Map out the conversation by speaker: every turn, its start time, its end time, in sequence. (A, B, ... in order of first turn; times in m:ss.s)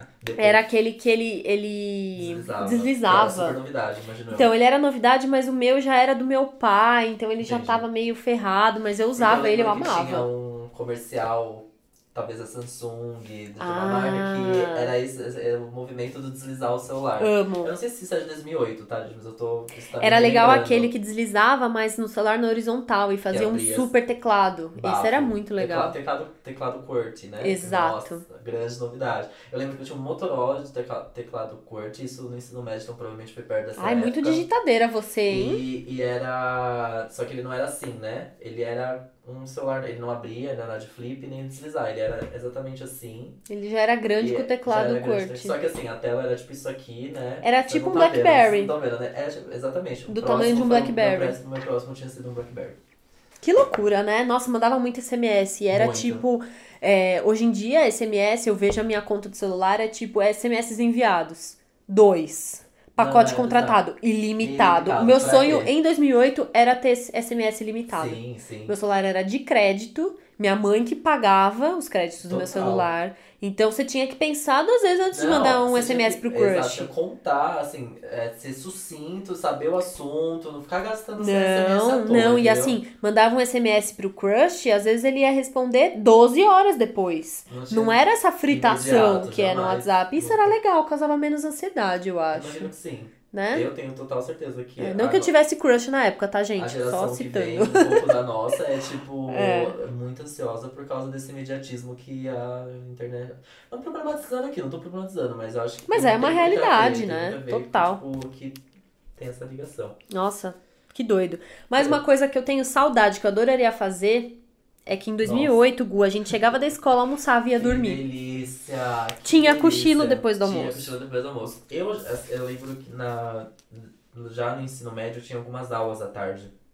0:00.2-0:00.7 A
0:00.4-0:03.6 B
0:02.1-0:04.5 A
0:04.3-0:10.3 B
0:07.4-0:07.8 A
0:09.1-0:20.9 A
0:13.6-0:14.9 B
0:17.2-0:17.7 B
0:20.0-0:25.9 B
0:23.3-0:23.9 A
0:24.8-0:34.5 A
0:27.4-0:28.2 B
0:33.8-0:35.6 B
0:35.3-0:43.4 A
0:43.5-0:45.6 B
0:44.2-0:52.8 A
0:47.4-0:48.7 B
0:50.1-0:51.4 B
0:53.4-1:16.9 B
0:55.7-0:56.2 A
1:03.0-1:03.8 A
1:04.4-1:05.7 A
1:07.9-1:08.7 A
1:12.2-1:12.9 A
1:15.1-1:22.8 A
1:21.2-1:32.7 B
1:27.5-1:30.5 A
1:32.3-1:35.3 A
1:33.3-1:33.7 B
1:34.8-1:38.1 B
1:36.6-1:48.6 A
1:39.3-1:39.8 B
1:45.9-1:48.0 B
1:49.2-1:50.0 A
1:50.1-1:54.3 B
1:54.9-1:58.0 B
1:55.2-1:55.6 A
1:57.6-2:06.5 A
1:59.2-2:00.9 B